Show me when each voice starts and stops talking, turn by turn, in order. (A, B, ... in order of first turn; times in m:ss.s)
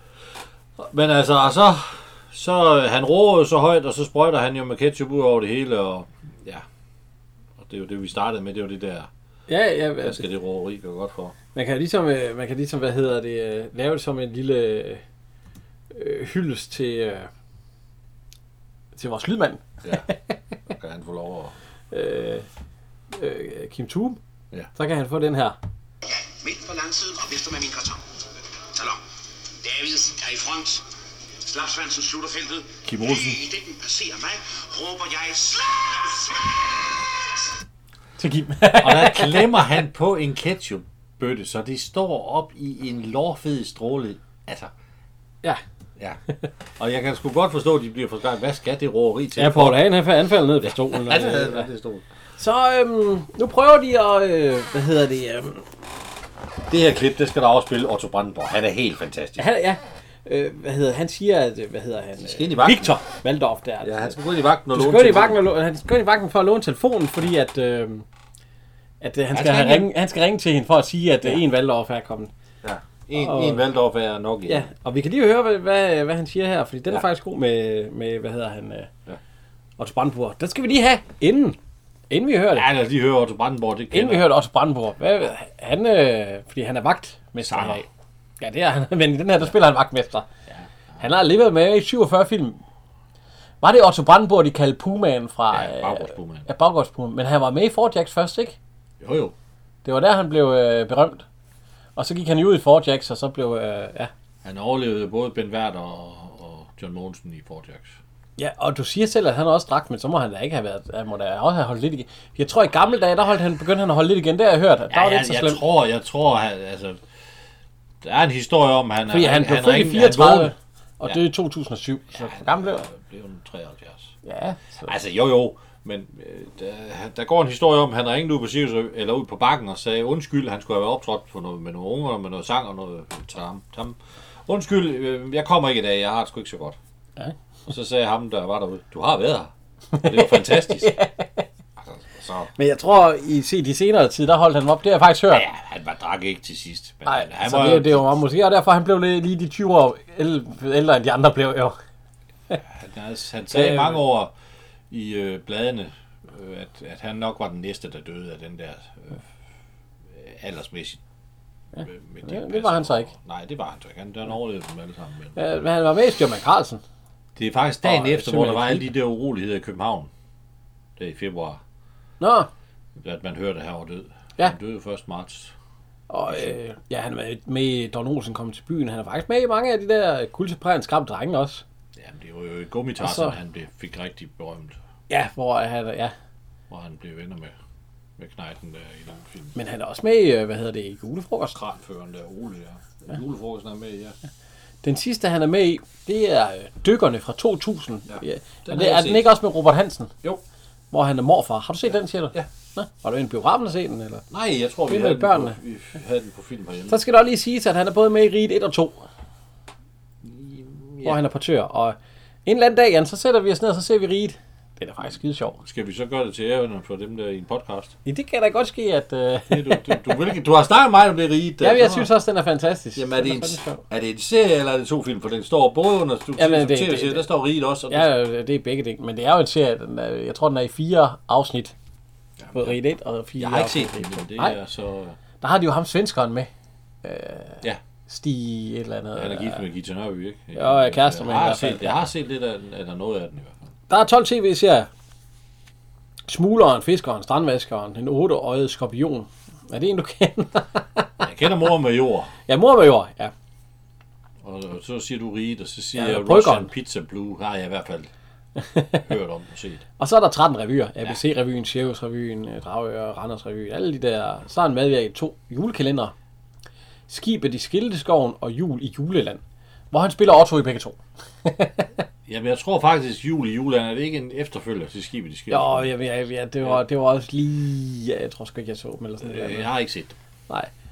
0:00.8-0:06.6 A
0:07.6-0:09.1 A
0:09.5-0:10.2 B
0:10.0-0:11.4 A
0:11.6-0:15.0 B
0:15.9-0:17.3 B
0:19.0-0:20.4 B
0:20.7-0:21.5 A
0:21.9-0:22.5 B
0:23.1-0:24.2 B
0:24.8-0:25.6 B
0:26.1-0:28.0 C
0:28.7-0:29.0 C
0:29.6-0:30.9 C
0:31.4-0:36.9 C
0:32.8-0:33.4 A
0:38.2-0:39.7 B
0:38.8-0:44.7 A
0:46.8-0:49.8 A
0:49.4-0:51.7 B
0:50.6-0:52.0 A
0:52.4-0:55.7 B
0:56.7-0:59.4 A
0:59.4-1:04.2 B
1:02.2-1:03.0 A
1:03.8-1:05.4 A
1:04.7-1:08.1 B
1:09.0-1:12.3 B
1:09.3-1:09.9 A
1:12.6-1:14.7 A
1:13.2-1:13.6 B
1:14.5-1:18.9 B
1:19.8-1:21.6 B
1:22.1-1:22.7 B
1:22.5-1:24.3 A
1:23.9-1:27.9 B
1:27.4-1:27.8 A
1:28.4-1:30.3 B
1:31.0-1:32.6 B
1:33.6-1:38.6 B
1:35.5-1:36.5 A
1:39.0-1:39.4 A
1:39.8-1:41.2 B
1:42.0-1:44.1 B
1:44.4-1:48.0 A
1:48.4-1:55.6 B
1:54.9-1:57.0 A
1:58.0-2:00.5 A
1:59.1-2:02.9 B
2:02.1-2:04.1 A
2:04.2-2:04.9 B
2:04.8-2:16.8 A
2:17.7-2:20.9 A
2:19.9-2:21.5 B
2:21.8-2:22.5 A
2:22.6-2:25.4 B
2:25.3-2:28.2 A
2:27.1-2:31.8 B
2:32.6-2:34.3 A
2:33.5-2:34.0 B
2:34.9-2:39.3 A
2:40.1-2:41.0 A
2:41.8-2:43.1 B
2:41.8-2:45.4 A
2:45.4-2:46.8 B
2:47.4-2:50.1 A
2:47.8-2:48.9 B
2:51.0-2:51.6 A
2:52.2-2:52.5 B
2:53.0-2:55.5 A
2:56.1-3:01.6 B
2:56.3-2:56.5 A
3:02.0-3:04.8 A
3:03.0-3:03.4 B
3:05.1-3:06.1 B
3:06.7-3:07.6 A
3:08.2-3:09.6 A
3:09.6-3:11.6 B
3:11.5-3:14.2 A
3:14.8-3:20.1 B
3:18.1-3:19.3 A
3:20.9-3:24.2 B
3:24.3-3:27.0 A
3:24.9-3:25.6 B
3:26.9-3:29.1 B
3:30.2-3:31.2 A
3:31.0-3:35.6 B
3:35.6-3:37.9 A
3:38.0-3:40.1 B
3:39.5-3:42.1 A
3:41.6-3:43.8 B
3:43.0-3:48.1 A
3:46.4-3:47.2 B
3:47.9-3:51.7 B
3:52.4-3:52.8 A
3:52.5-3:54.6 B
3:53.4-3:55.2 A
3:55.4-3:56.5 B
3:57.0-3:59.6 B
3:59.2-4:03.6 A
4:00.6-4:02.0 B
4:03.9-4:04.9 B
4:06.3-4:11.3 B
4:11.2-4:12.3 A
4:12.5-4:13.3 B
4:14.4-4:18.1 A
4:16.0-4:16.7 B
4:18.6-4:19.1 B
4:19.0-4:19.8 A
4:20.0-4:26.1 B
4:27.1-4:29.4 B
4:29.9-4:32.0 B
4:32.3-4:35.9 A
4:35.5-4:39.7 B
4:39.2-4:40.2 A